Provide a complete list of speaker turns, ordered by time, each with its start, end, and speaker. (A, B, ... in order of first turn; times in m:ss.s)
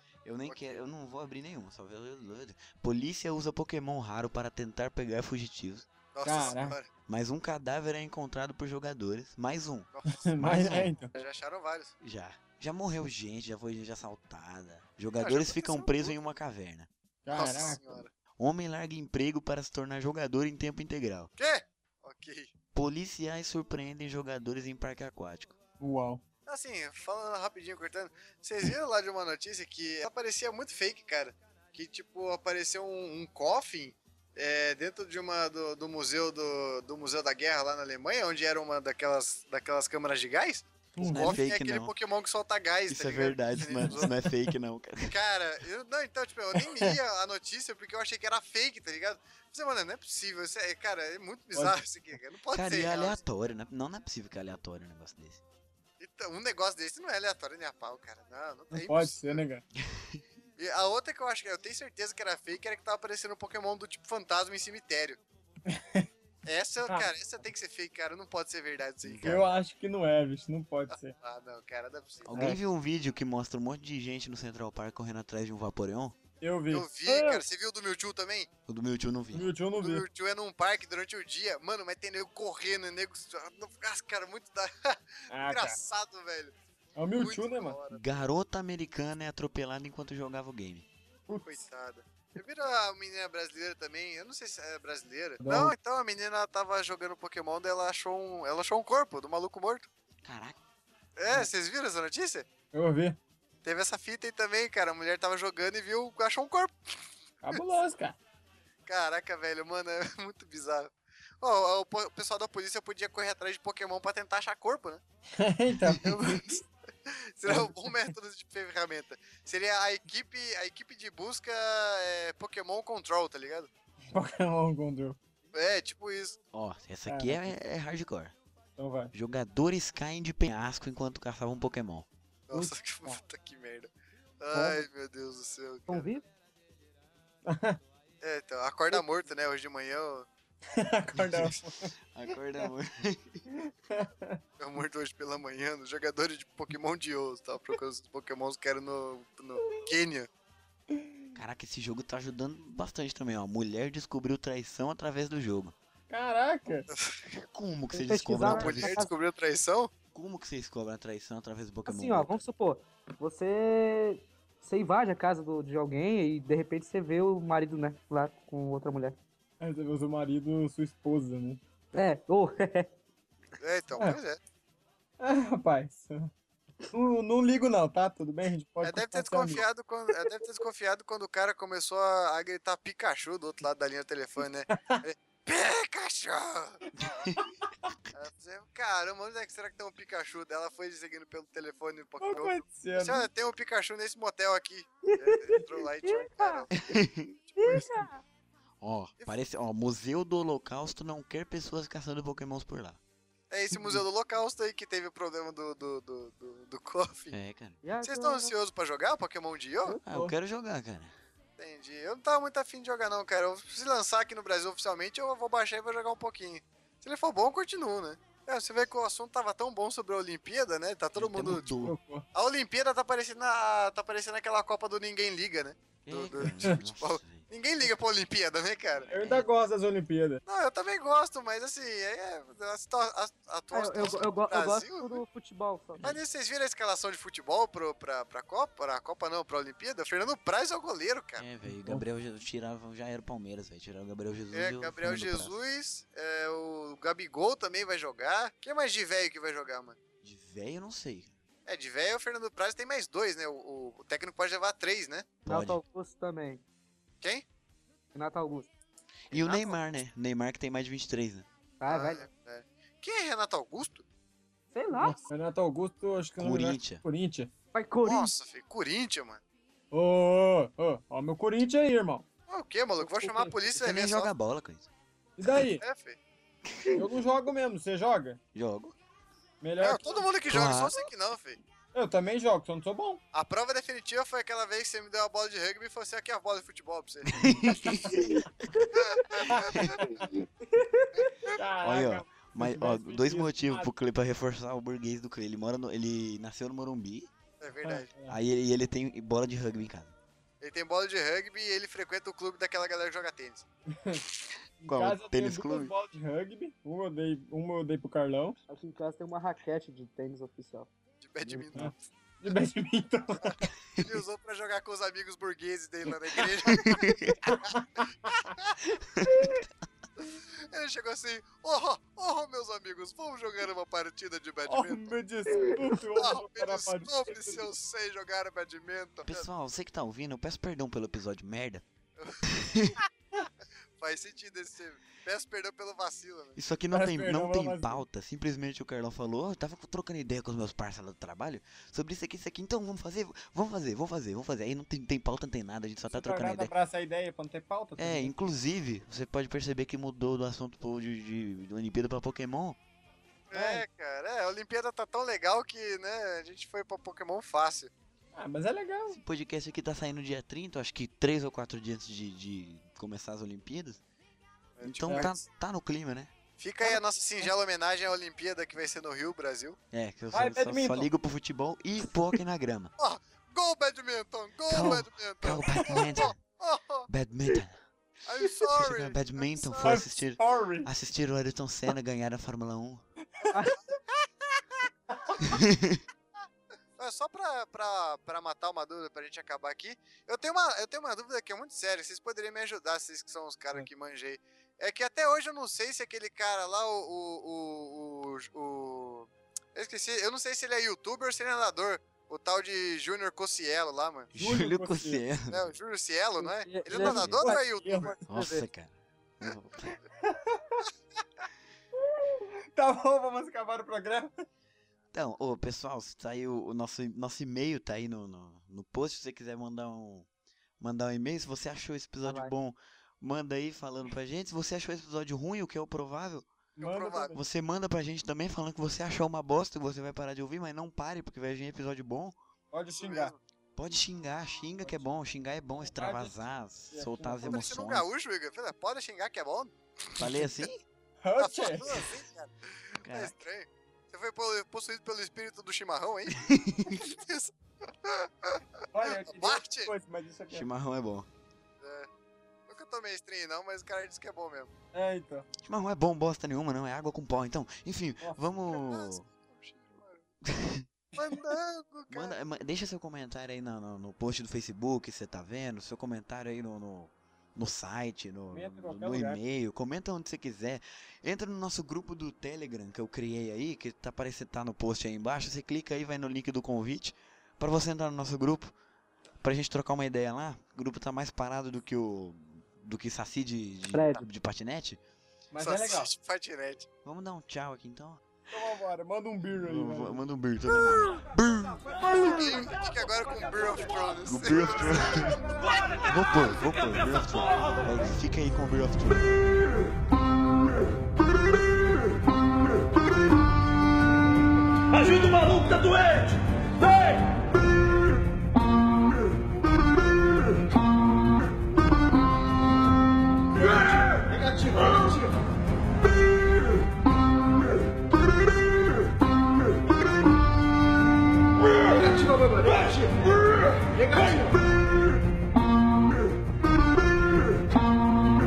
0:00.2-0:05.9 A
0:00.5-0:00.7 B
0:06.1-0:06.9 B
0:06.2-0:06.8 C
0:07.1-0:09.9 A
0:09.9-0:11.9 B
0:10.1-0:11.1 C
0:10.4-0:10.9 A
0:12.0-0:16.9 A
0:15.2-0:16.2 B
0:17.2-0:18.0 C
0:17.3-0:18.1 B
0:18.4-0:21.3 A
0:21.4-0:22.5 B
0:22.7-0:25.6 A
0:25.8-0:26.2 C
0:26.5-0:44.1 B
0:41.0-0:41.4 C
0:41.0-0:41.9 A
0:42.9-0:45.2 A
0:43.8-0:44.2 C
0:45.0-0:53.2 B
0:46.6-0:46.9 C
0:52.5-0:55.4 A
0:56.0-0:59.4 B
0:58.7-0:59.6 C
0:59.8-1:00.2 A
1:00.6-1:05.2 B
1:05.7-1:06.1 C
1:06.5-1:09.5 B
1:09.0-1:09.4 A
1:09.2-1:11.1 C
1:11.2-1:12.3 B
1:12.2-1:16.2 A
1:12.3-1:12.6 C
1:16.4-1:17.4 C
1:16.7-1:18.5 B
1:18.7-1:19.5 A
1:19.3-1:20.0 C
1:19.8-1:26.6 B
1:25.3-1:25.8 C
1:27.0-1:27.8 C
1:27.2-1:28.0 B
1:27.9-1:30.9 A
1:31.3-1:31.7 C
1:31.5-1:39.9 B
1:35.4-1:35.7 C
1:40.2-1:40.6 A
1:41.2-1:42.5 B
1:42.7-1:43.2 C
1:43.6-1:46.7 B
1:47.4-1:48.2 C
1:48.9-1:55.0 B
1:55.4-1:56.6 C
1:55.8-1:56.1 A
1:56.0-2:03.7 B
1:57.5-1:57.9 C
2:04.1-2:05.2 C
2:05.5-2:06.4 B
2:06.5-2:08.3 A
2:07.1-2:07.5 C
2:08.8-2:09.1 C
2:09.1-2:12.1 A
2:12.5-2:13.9 B
2:12.5-2:13.2 C
2:14.4-2:16.1 B
2:14.5-2:14.8 C
2:15.9-2:16.2 D
2:17.5-2:17.8 C
2:18.2-2:20.3 B
2:20.8-2:21.9 C
2:21.2-2:21.6 A
2:22.1-2:23.5 A
2:23.9-2:24.4 C
2:24.6-2:30.3 B
2:31.4-2:35.8 A
2:36.1-2:36.9 C
2:36.9-2:37.4 B
2:37.5-2:39.1 A
2:38.0-2:39.1 D
2:38.4-2:39.9 B
2:40.1-2:42.5 A
2:41.9-2:49.2 D
2:49.6-2:51.6 C
2:51.9-2:52.9 D
2:53.6-2:54.4 B
2:55.2-2:56.3 C
2:56.9-2:59.6 C
2:58.8-3:06.8 B
3:07.0-3:07.4 A
3:07.4-3:07.9 C
3:08.1-3:18.0 B
3:12.2-3:13.3 C
3:15.0-3:16.7 D
3:16.8-3:17.3 A
3:17.6-3:18.2 D
3:18.8-3:23.0 A
3:23.5-3:27.4 B
3:23.7-3:24.0 C
3:27.3-3:27.8 A
3:27.8-3:28.5 D
3:28.0-3:30.0 B
3:29.9-3:30.4 C
3:30.0-3:31.1 A
3:31.6-3:49.1 B
3:41.2-3:42.0 A
3:41.8-3:42.2 C
3:46.1-3:47.5 A
3:48.9-3:49.5 A
3:49.1-3:50.4 C
3:50.5-3:55.2 B
3:53.7-3:56.0 D
3:56.0-4:01.5 B
4:01.4-4:05.5 A
4:01.7-4:02.0 C
4:04.5-4:10.0 B
4:10.2-4:11.4 A
4:11.7-4:15.3 B
4:15.5-4:15.8 A
4:15.5-4:16.6 D
4:18.1-4:18.7 D
4:19.3-4:19.8 B
4:19.3-4:21.5 A
4:21.8-4:22.3 D
4:21.9-4:24.0 B
4:24.7-4:25.2 D
4:24.9-4:27.5 C
4:26.4-4:27.0 A
4:27.7-4:28.3 D
4:28.0-4:29.4 B
4:29.9-4:32.3 C
4:32.5-4:34.3 B
4:33.0-4:33.6 D
4:33.8-4:34.9 A
4:35.4-4:35.8 C
4:35.8-4:36.2 B
4:36.6-4:37.1 A
4:36.9-4:38.4 C
4:38.5-4:39.0 A
4:39.6-4:40.2 C
4:39.8-4:41.6 B
4:40.5-4:41.0 A
4:41.9-4:43.2 C
4:43.3-4:47.4 B
4:47.3-4:48.5 A
4:48.9-4:50.0 B
4:49.5-4:50.2 C
4:49.6-4:50.1 A
4:50.8-4:51.1 D
4:51.2-4:51.5 B
4:51.5-4:53.9 C
4:51.8-4:57.3 A
4:57.6-4:58.1 B
4:57.8-4:58.4 C
4:58.3-5:00.2 A
5:00.6-5:03.6 B
5:03.9-5:04.2 C
5:04.8-5:08.6 C
5:04.8-5:05.9 A
5:08.7-5:10.9 D
5:11.2-5:12.0 B
5:11.4-5:11.7 D
5:11.8-5:13.7 C
5:13.4-5:17.1 B
5:16.8-5:17.5 A
5:17.4-5:18.5 C
5:19.2-5:19.6 A
5:19.3-5:19.6 C
5:20.7-5:25.2 B
5:24.7-5:27.6 C
5:26.2-5:29.5 B
5:29.2-5:31.8 A
5:32.2-5:32.5 B
5:32.4-5:33.0 A
5:34.0-5:36.6 B
5:36.6-5:46.7 A
5:36.9-5:38.0 C
5:46.1-5:48.3 C
5:48.0-5:52.8 A
5:53.5-5:57.9 B
5:53.5-5:53.8 C
5:58.4-5:59.2 C
5:59.1-6:04.0 A
6:04.8-6:05.4 B
6:04.8-6:06.3 A
6:05.1-6:05.3 C
6:06.6-6:09.8 B
6:09.9-6:12.9 A
6:10.3-6:11.1 C
6:13.0-6:17.1 B
6:14.7-6:16.4 A
6:17.1-6:17.8 A
6:18.2-6:20.0 B
6:18.7-6:23.0 A
6:19.8-6:20.9 C
6:23.5-6:23.8 D
6:25.1-6:25.4 C
6:25.4-6:26.0 A
6:27.0-6:44.3 B
6:44.3-6:45.7 A
6:44.4-6:45.2 C
6:45.5-6:48.2 B
6:46.7-6:47.3 D
6:46.7-6:48.2 C
6:47.1-6:47.5 A
6:48.3-6:50.0 A
6:48.3-6:48.7 D
6:50.2-6:50.8 C
6:52.2-6:54.4 C
6:55.1-7:00.3 A
7:00.8-7:06.5 A
7:02.2-7:02.5 D
7:06.8-7:07.3 B
7:06.8-7:07.4 C
7:07.3-7:12.4 A
7:12.7-7:13.3 C
7:13.0-7:13.4 B
7:13.8-7:18.1 A
7:14.8-7:15.1 C
7:15.9-7:16.4 C
7:16.9-7:17.6 C
7:17.4-7:20.3 B
7:20.2-7:20.8 A
7:21.2-7:22.1 C
7:21.4-7:27.5 B
7:23.0-7:23.4 A
7:26.5-7:27.0 A
7:28.0-7:28.6 B
7:28.9-7:30.7 C
7:29.3-7:29.9 B
7:30.5-7:31.3 A
7:31.8-7:32.1 B
7:32.7-7:34.7 B
7:34.9-7:35.5 C
7:35.6-7:39.2 A
7:38.7-7:40.3 B
7:40.4-7:40.8 A
7:41.2-7:42.4 B
7:42.1-7:58.7 A
7:48.5-7:49.4 C
7:59.4-8:05.0 A
8:03.9-8:04.2 D
8:05.5-8:06.1 C
8:05.6-8:06.9 B
8:07.0-8:08.2 A
8:08.5-8:10.2 C
8:09.6-8:11.9 A
8:12.0-8:15.3 B
8:14.2-8:15.4 A
8:16.0-8:19.4 A
8:24.9-8:27.2 E
8:33.6-8:35.3 E
8:41.6-8:44.6 E